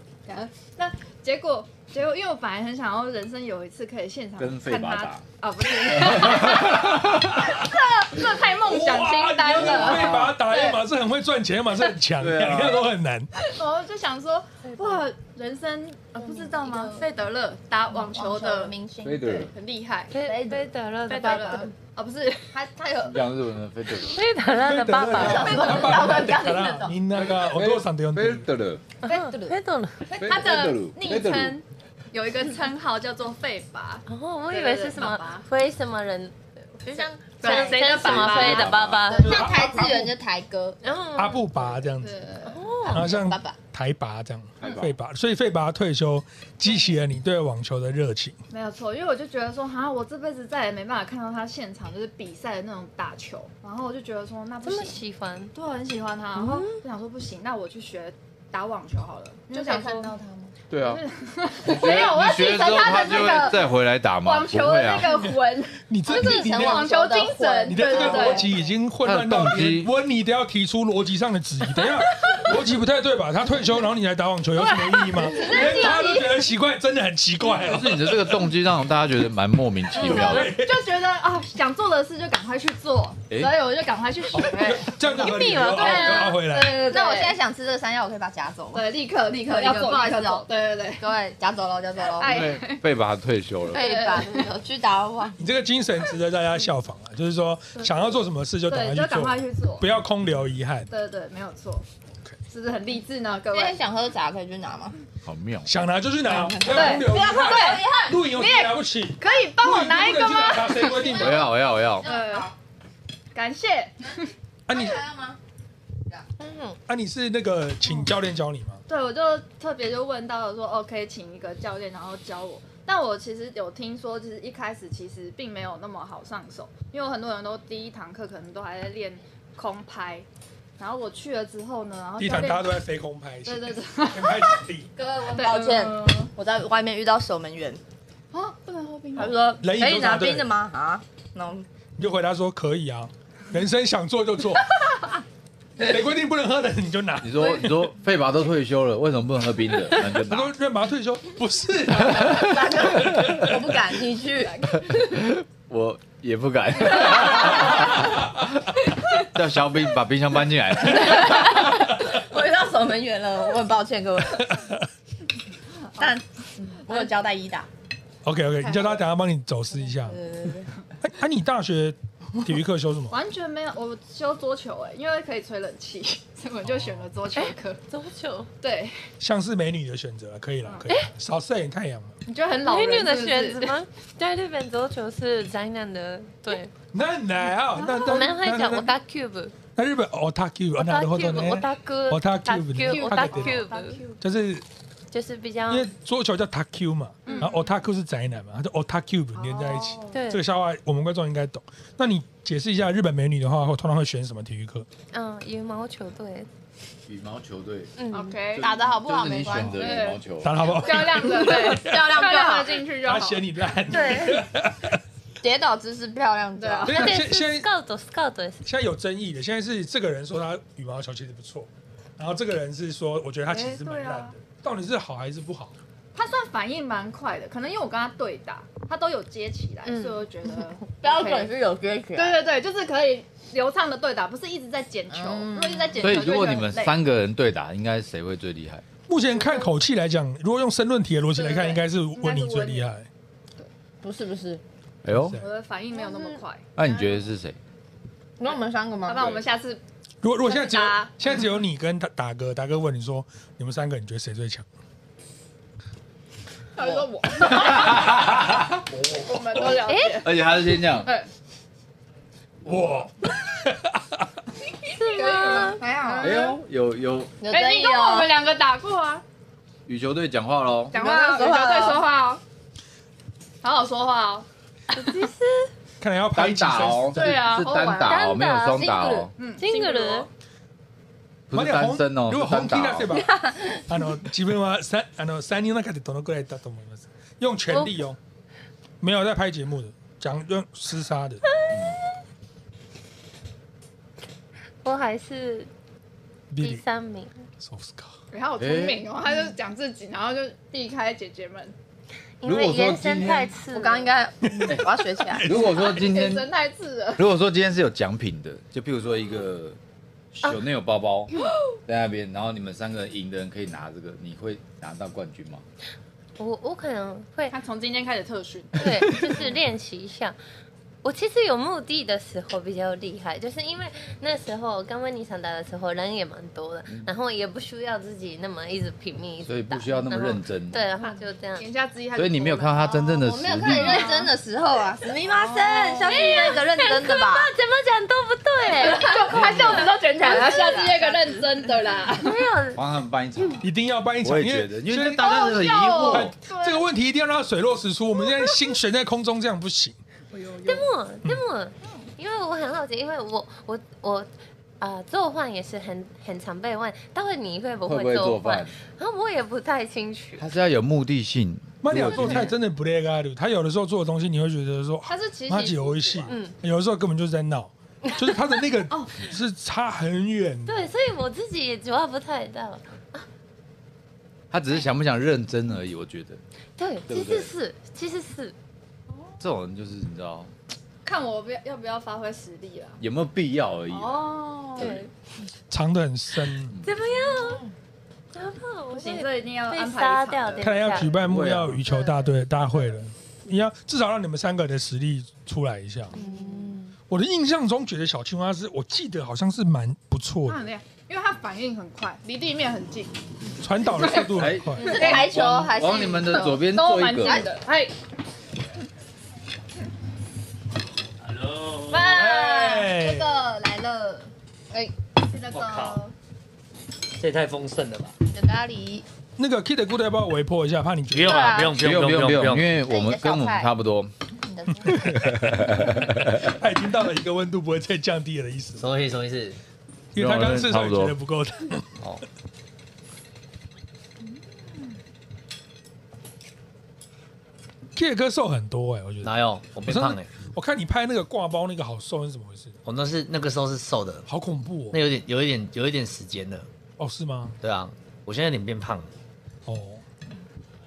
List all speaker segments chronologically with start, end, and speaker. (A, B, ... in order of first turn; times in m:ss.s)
0:00.3-0:10.8 A
0:04.4-0:05.2 B
0:05.9-0:07.0 B
0:06.6-0:07.7 C
0:08.5-0:13.3 C
0:09.6-0:10.3 D
0:12.2-0:12.9 B
0:13.4-0:20.1 A
0:16.2-0:17.1 D
0:18.0-0:19.5 D
0:19.0-0:19.5 B
0:20.1-0:21.7 E
0:20.2-0:21.7 D
0:21.1-0:22.6 A
0:22.5-0:23.2 D
0:23.0-0:24.2 B
0:24.1-0:25.9 E
0:24.5-0:28.5 C
0:25.1-0:27.0 D
0:25.3-0:26.4 A
0:27.2-0:28.8 B
0:29.1-0:29.4 A
0:29.1-0:30.1 E
0:30.1-0:35.5 A
0:30.2-0:31.6 B
0:34.1-0:39.5 E
0:37.0-0:38.4 D
0:37.4-0:40.0 A
0:38.0-0:39.1 B
0:39.1-0:40.8 D
0:39.3-0:40.1 C
0:40.8-0:41.5 E
0:41.2-0:42.2 C
0:42.0-0:42.7 A
0:42.5-0:43.1 E
0:42.9-0:43.6 D
0:42.9-0:48.4 C
0:44.6-0:44.9 B
0:48.5-0:55.0 A
0:54.6-0:55.5 E
0:55.5-1:00.2 A
0:56.4-0:56.8 E
0:59.5-1:00.5 D
1:00.7-1:01.0 B
1:00.8-1:08.6 A
1:01.6-1:05.2 B
1:05.8-1:06.9 C
1:06.0-1:08.5 D
1:07.7-1:18.5 C
1:09.0-1:09.9 B
1:14.6-1:16.4 A
1:15.4-1:16.1 D
1:17.4-1:20.6 B
1:20.0-1:20.9 C
1:20.0-1:27.4 A
1:24.3-1:26.8 C
1:25.1-1:26.4 E
1:25.7-1:28.9 D
1:28.7-1:31.1 A
1:29.4-1:30.5 D
1:31.0-1:32.4 D
1:32.0-1:32.8 A
1:32.2-1:33.9 B
1:33.7-1:35.4 D
1:33.7-1:34.5 A
1:35.4-1:40.9 C
1:37.8-1:38.1 A
1:38.6-1:39.9 A
1:40.9-1:41.8 A
1:42.5-1:43.8 A
1:43.5-1:45.0 D
1:45.2-1:45.8 B
1:45.7-1:51.5 C
1:46.2-1:48.3 D
1:46.7-1:51.5 A
1:51.2-1:52.1 B
1:52.0-1:52.5 D
1:52.0-1:52.5 A
1:53.3-1:54.3 A
1:54.7-1:55.0 C
1:54.7-1:55.4 D
1:56.4-1:56.8 E
1:56.9-1:58.8 C
1:58.9-2:10.3 A
2:10.8-2:12.8 A
2:12.2-2:14.9 C
2:13.4-2:14.6 A
2:15.0-2:17.8 D
2:15.2-2:16.3 A
2:18.3-2:19.4 A
2:19.2-2:21.7 D
2:19.6-2:20.6 C
2:22.0-2:25.1 C
2:25.8-2:27.9 C
2:27.2-2:30.5 B
2:30.0-2:33.6 C
2:32.0-2:35.2 D
2:34.4-2:34.9 A
2:34.9-2:38.3 B
2:39.2-2:41.6 B
2:40.8-2:44.6 D
2:46.0-2:47.7 D
2:46.7-2:47.1 A
2:48.2-2:50.2 C
2:50.0-2:50.7 D
2:51.0-2:53.2 C
2:53.1-2:57.8 A
2:56.6-2:57.1 C
2:57.4-2:58.5 E
2:58.6-2:59.0 A
2:59.2-3:02.2 C
3:00.6-3:00.9 A
3:02.3-3:03.8 A
3:02.7-3:06.7 E
3:06.9-3:08.9 C
3:07.8-3:08.2 A
3:08.0-3:09.5 E
3:09.8-3:13.6 C
3:10.8-3:14.0 E
3:12.9-3:14.2 A
3:14.2-3:14.6 C
3:15.1-3:15.9 E
3:15.7-3:24.9 C
3:17.3-3:17.7 A
3:19.4-3:20.1 A
3:20.1-3:20.4 E
3:25.1-3:26.5 E
3:27.1-3:28.0 B
3:28.0-3:28.4 E
3:28.1-3:28.8 A
3:28.6-3:30.8 B
3:28.6-3:30.0 D
3:29.5-3:30.3 A
3:30.4-3:32.1 C
3:30.8-3:33.5 A
3:31.4-3:32.8 D
3:33.0-3:35.0 C
3:33.9-3:34.4 E
3:35.4-3:37.1 D
3:36.6-3:37.1 A
3:36.9-3:37.7 C
3:36.9-3:38.6 E
3:38.6-3:45.7 C
3:43.5-3:44.4 A
3:46.2-3:51.6 A
3:49.8-3:50.2 E
3:50.9-3:52.4 D
3:52.1-3:57.0 A
3:55.1-3:56.1 D
3:56.0-3:58.8 B
3:59.1-4:03.1 C
3:59.3-3:59.7 A
4:01.3-4:02.9 A
4:04.0-4:04.6 D
4:05.0-4:05.4 B
4:05.1-4:05.5 C
4:05.4-4:07.3 A
4:06.8-4:07.6 B
4:08.4-4:09.4 D
4:09.1-4:09.8 A
4:10.2-4:14.7 C
4:10.4-4:11.2 A
4:16.8-4:18.3 A
4:17.5-4:18.8 B
4:19.1-4:21.3 A
4:19.8-4:20.2 E
4:20.2-4:21.1 B
4:22.6-4:24.3 C
4:24.9-4:25.8 E
4:25.0-4:26.6 A
4:25.8-4:26.6 D
4:26.2-4:27.4 B
4:27.4-4:28.3 D
4:27.5-4:29.2 A
4:29.9-4:31.0 B
4:30.9-4:32.4 A
4:30.9-4:32.1 D
4:33.6-4:34.5 A
4:34.9-4:35.7 E
4:36.0-4:37.5 C
4:36.3-4:39.3 B
4:37.1-4:38.2 A
4:38.0-4:40.3 E
4:39.4-4:40.3 A
4:41.5-4:43.2 B
4:41.5-4:48.2 C
4:43.2-4:43.8 D
4:47.7-4:48.0 E
4:49.0-4:51.4 C
4:51.7-4:52.0 B
4:54.8-4:55.7 E
4:56.5-4:56.8 C
4:56.6-4:57.4 E
4:57.6-4:58.1 C
4:58.3-5:01.7 A
4:58.6-4:59.0 B
5:02.4-5:04.1 E
5:02.4-5:03.5 B
5:03.7-5:05.6 D
5:04.5-5:05.8 C
5:05.4-5:06.5 B
5:05.6-5:07.2 A
5:07.2-5:09.8 B
5:10.3-5:11.3 B
5:11.8-5:15.6 B
5:16.4-5:17.6 E
5:17.5-5:19.5 A
5:18.8-5:20.4 E
5:21.0-5:31.7 E
5:29.4-5:30.8 B
5:31.0-5:34.4 A
5:32.2-5:34.1 B
5:33.2-5:37.5 D
5:35.3-5:36.5 A
5:36.0-5:39.2 E
5:38.7-5:42.4 A
5:38.9-5:41.6 D
5:39.3-5:39.9 B
5:42.1-5:42.8 E
5:42.8-5:43.7 B
5:43.6-5:50.0 C
5:44.2-5:46.4 B
5:45.2-5:46.9 A
5:50.3-5:50.9 A
5:50.6-6:00.5 E
5:57.8-5:58.8 B
6:00.4-6:02.5 B
6:01.8-6:10.9 C
6:02.2-6:02.4 A
6:05.1-6:06.5 A
6:08.9-6:09.2 A
6:10.7-6:13.2 E
6:14.5-6:16.4 B
6:16.8-6:18.6 E
6:17.1-6:17.5 B
6:19.1-6:19.4 A
6:19.4-6:20.5 B
6:21.0-6:23.0 A
6:23.0-6:24.2 B
6:23.9-6:25.0 A
6:24.8-6:25.1 E
6:25.7-6:26.8 C
6:26.8-6:27.6 E
6:28.3-6:31.1 E
6:28.9-6:31.2 A
6:30.6-6:36.2 C
6:31.2-6:31.8 B
6:31.8-6:33.0 A
6:36.1-6:36.7 E
6:36.1-6:36.8 D
6:37.1-6:40.6 C
6:40.5-6:43.2 A
6:43.6-6:45.0 C
6:43.8-6:45.4 A
6:44.3-6:47.4 B
6:44.8-6:46.7 D
6:46.4-6:47.9 A
6:47.2-6:47.5 D
6:51.2-6:52.2 F
6:51.9-6:54.3 A
6:52.1-6:53.4 C
6:55.2-6:56.1 A
6:55.5-6:56.0 F
6:57.2-6:58.2 F
6:58.2-6:59.0 D
6:59.4-7:01.7 C
7:01.1-7:02.7 F
7:01.3-7:01.7 D
7:01.8-7:04.1 B
7:02.8-7:03.7 D
7:04.4-7:05.3 D
7:04.9-7:08.8 C
7:04.9-7:06.6 B
7:08.8-7:09.6 F
7:10.1-7:11.9 C
7:10.2-7:11.2 B
7:14.2-7:15.0 A
7:18.0-7:19.3 C
7:19.2-7:20.3 F
7:19.9-7:22.8 C
7:22.9-7:24.3 F
7:24.3-7:25.0 C
7:24.9-7:26.7 F
7:27.0-7:27.6 C
7:27.6-7:29.1 F
7:29.7-7:30.0 C